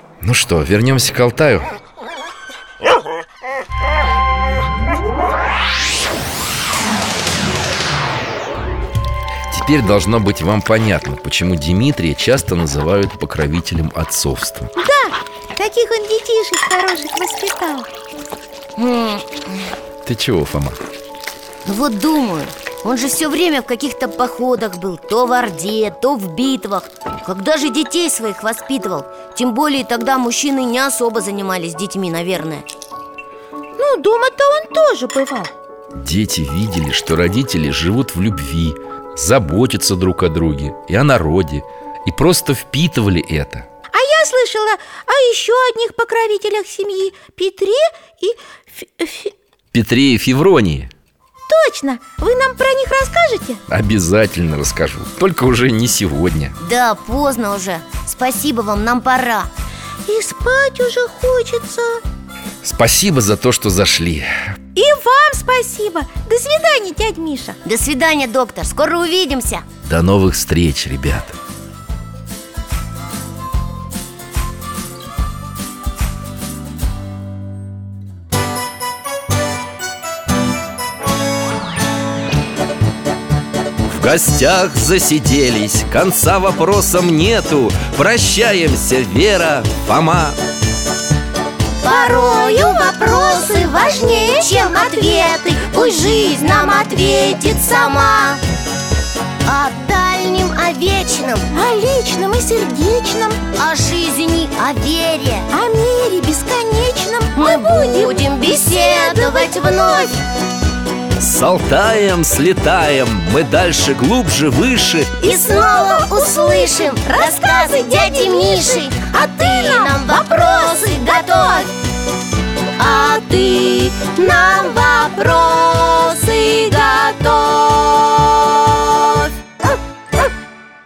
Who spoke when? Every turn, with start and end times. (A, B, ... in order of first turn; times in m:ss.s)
0:00.2-0:01.7 A
0:09.5-0:14.7 A
0:14.8-0:17.9 B
0:18.8-0:19.7 C
0:20.0-0:20.8 A
0:21.6-0:32.7 C
0:33.8-0:35.5 B
0:35.9-0:43.7 A
0:43.9-0:49.3 B
0:49.7-0:50.9 A
0:51.5-0:53.6 B
0:53.7-0:56.6 A
0:56.6-0:59.5 C
1:00.1-1:02.0 B
1:02.6-1:04.3 A
1:04.8-1:07.6 B
1:07.6-1:09.6 C
1:09.8-1:11.4 A
1:23.8-1:30.4 A
1:31.8-1:38.4 C
1:31.9-1:36.9 B
1:39.4-1:41.5 C
1:41.5-1:43.4 B
1:43.6-1:45.5 C
1:45.5-1:50.1 B
1:47.4-1:50.2 C
1:51.2-1:55.2 A
1:55.2-2:01.7 B
1:55.2-2:01.7 C
2:02.8-2:09.3 C